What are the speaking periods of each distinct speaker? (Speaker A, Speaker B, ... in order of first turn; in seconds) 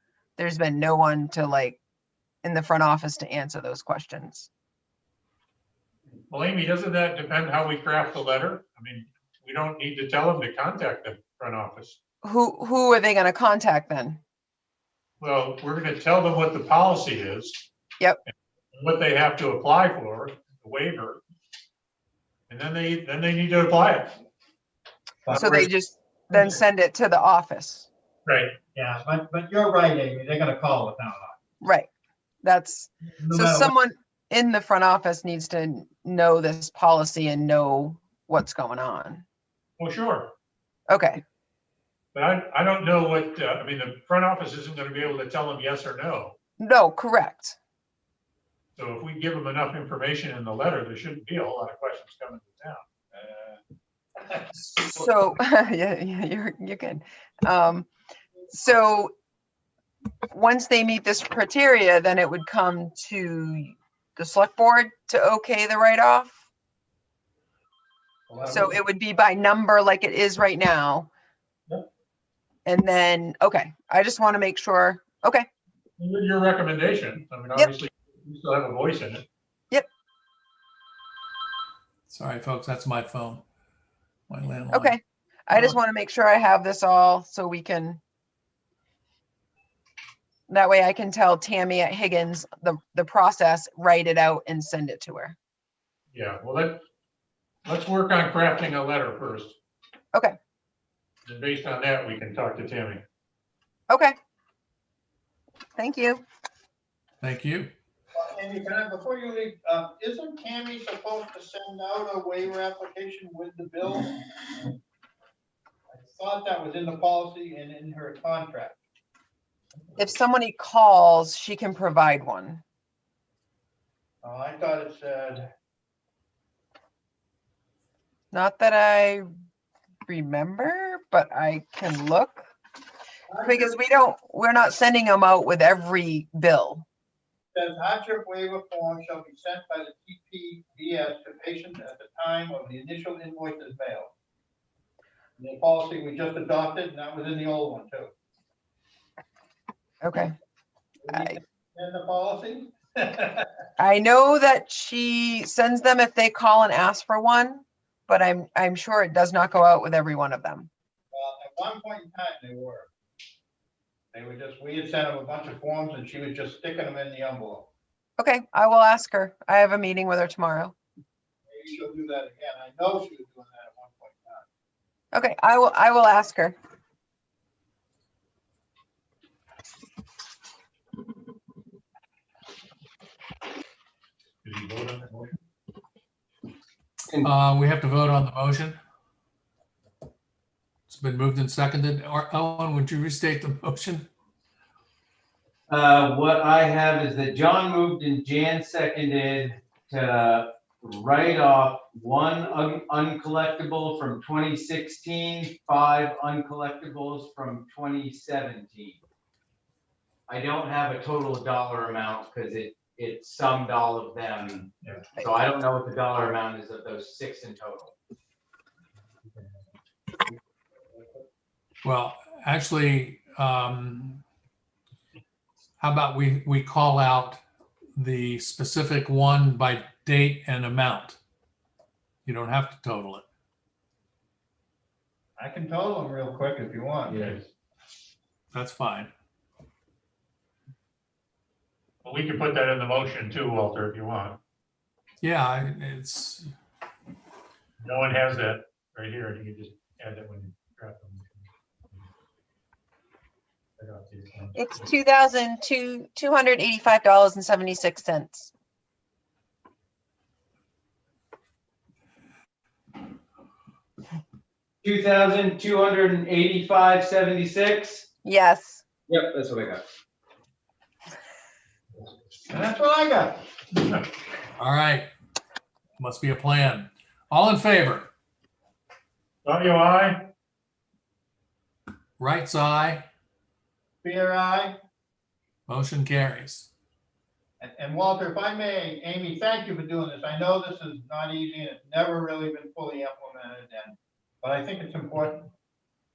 Speaker A: 0.4-1.8, 2.4-4.5, 12.2-14.2, 25.3-27.9, 31.6-31.9, 32.4-39.2, 40.9-41.2, 46.6-47.6, 54.6-57.9, 58.5-59.1, 60.3-66.4, 68.5-71.1, 72.7-75.5, 84.7-88.0, 90.5-95.4, 103.9-104.2, 105.8-106.2, 120.0-122.6, 128.3-129.3, 130.1-132.5, 133.4-136.8, 150.0-150.3, 151.1-151.4, 153.8-160.7, 168.2-170.8, 175.1-176.6, 254.6-258.5, 268.2-268.8
Speaker B: 6.3-12.0, 15.2-17.6, 18.7-21.2, 22.5-24.2, 28.3-28.6, 39.8-40.3, 42.1-46.4, 48.8-52.8, 76.0-79.2, 96.1-96.8, 97.7-99.6, 101.3-103.0, 184.4-185.4, 242.0-244.4, 247.8-252.1, 253.8-254.7, 279.4-280.3
Speaker C: 25.2-25.7, 26.3-26.6, 28.7-31.4, 33.2-33.7, 53.2-53.5, 68.3-68.8, 108.1-114.8, 115.9-118.8, 124.2-125.5, 133.3-133.7, 137.5-144.1, 145.4-148.1, 151.0-153.5, 161.1-162.9, 164.1-167.7, 171.5-174.5, 235.4-237.5, 272.5-273.4, 284.0-284.8, 287.6-295.5
Speaker D: 82.1-83.4, 84.3-85.0, 85.5-85.8, 107.2-107.7, 187.2-188.8, 190.9-194.1, 221.8-224.2, 225.8-227.4, 228.0-231.2, 232.2-233.3, 238.5-239.1, 245.2-246.5, 274.6-275.1, 276.0-278.1, 282.2-283.1, 285.7-286.7
Speaker E: 195.7-209.0, 210.3-217.9, 264.8-268.1, 269.1-269.8